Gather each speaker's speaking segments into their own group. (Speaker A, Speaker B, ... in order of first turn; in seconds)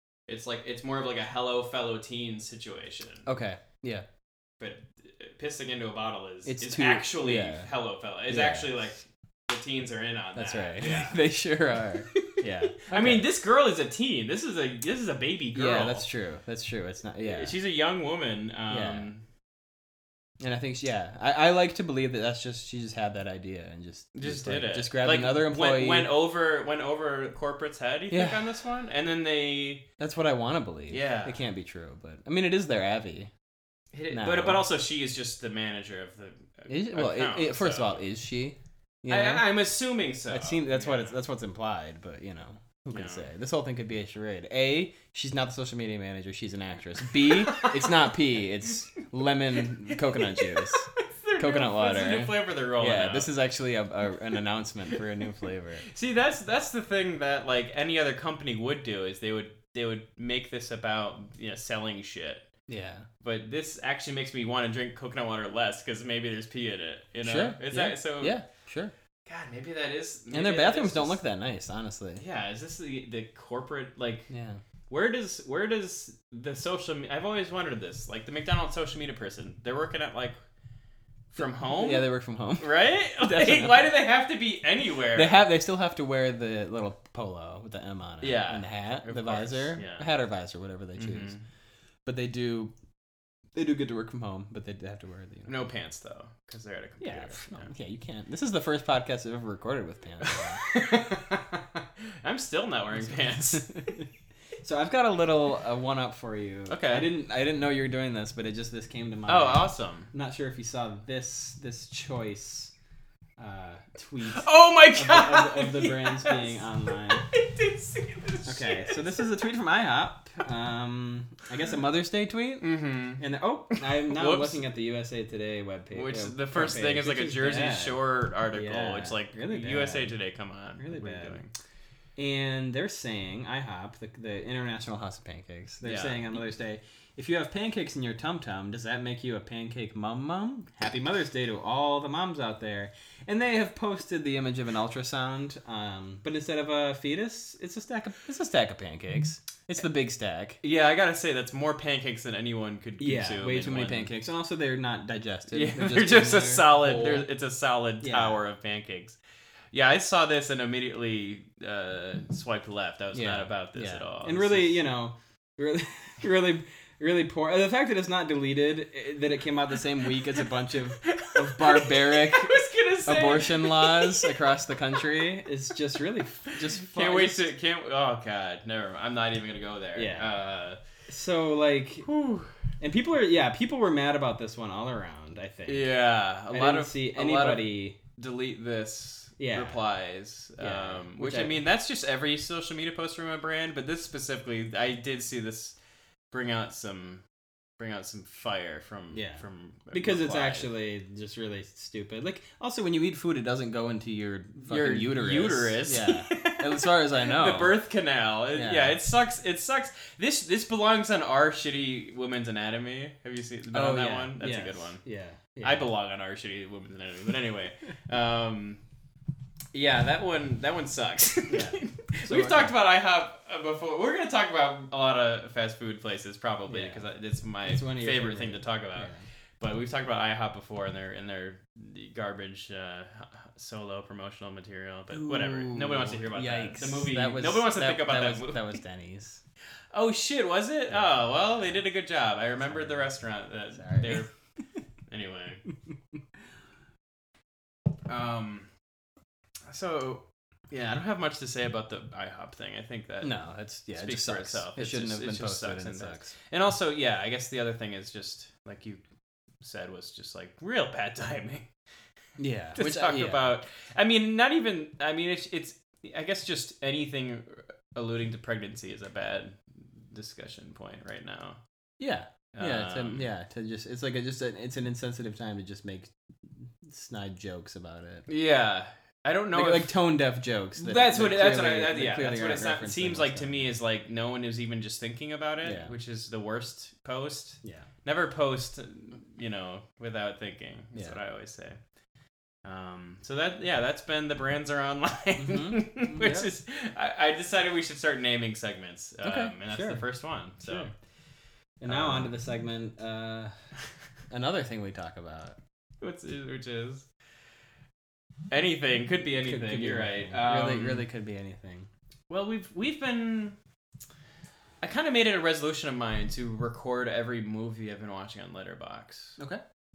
Speaker A: 0.3-3.3, 4.6-11.2, 12.8-16.1, 17.2-19.2, 24.1-29.9, 30.9-31.4, 33.9-38.0, 39.1-41.2, 42.9-43.3, 47.5-47.8, 50.4-53.3, 55.9-62.5, 63.2-68.4, 69.3-71.2, 72.2-74.3, 74.9-80.4, 81.3-85.4, 88.2-90.1, 91.0-91.4, 95.5-97.7, 100.2-103.7, 106.7-107.1, 109.3-110.1, 114.2-116.6, 117.1-119.1, 122.6-124.6, 125.9-131.5, 135.8-136.3, 150.6-154.1, 155.5-159.2, 159.7-164.8, 171.0-174.3, 176.8-180.8, 182.0-182.5, 185.7-195.8, 196.3-197.2, 197.8-200.7, 204.7-215.0, 215.6-218.8, 219.7-238.7, 239.9-244.3, 245.1-245.6, 248.1-248.7, 249.7-253.4, 253.9-259.0, 259.6-261.7, 262.8-271.6, 272.5-273.3, 278.3-279.9, 280.8-291.8, 292.6-300.9, 301.9-302.3, 306.0-307.1, 308.5-311.1, 312.3-313.6, 314.8-319.4
Speaker B: 3.2-4.0, 6.5-7.7, 8.3-8.8, 10.3-13.3, 15.5-17.5, 18.7-19.1, 20.4-26.1, 28.1-28.5, 30.0-33.3, 34.1-34.7, 36.7-39.5, 40.3-55.9, 62.7-63.1, 67.2-68.9, 70.3-72.2, 74.3-74.6, 81.4-83.9, 85.1-91.3, 92.0-92.7, 93.5-95.5, 97.0-100.6, 103.0-104.1, 104.6-112.7, 113.4-117.2, 118.5-130.2, 130.8-131.4, 132.2-150.6, 153.0-157.3, 158.0-158.4, 163.1-177.4, 179.9-180.3, 181.1-182.1, 182.8-185.9, 186.5-188.0, 189.4-189.8, 190.6-191.6, 199.1-207.8, 208.5-209.0, 213.7-215.9, 221.5-222.7, 226.7-227.0, 227.7-229.2, 235.1-239.4, 242.7-243.1, 243.8-244.2, 253.2-256.3, 262.4-263.5, 272.0-278.3, 279.5-283.7, 285.6-285.9, 287.6-287.9, 295.4-296.5, 299.2-300.0, 300.6-300.9, 301.8-303.5, 304.3-305.6, 309.4-311.9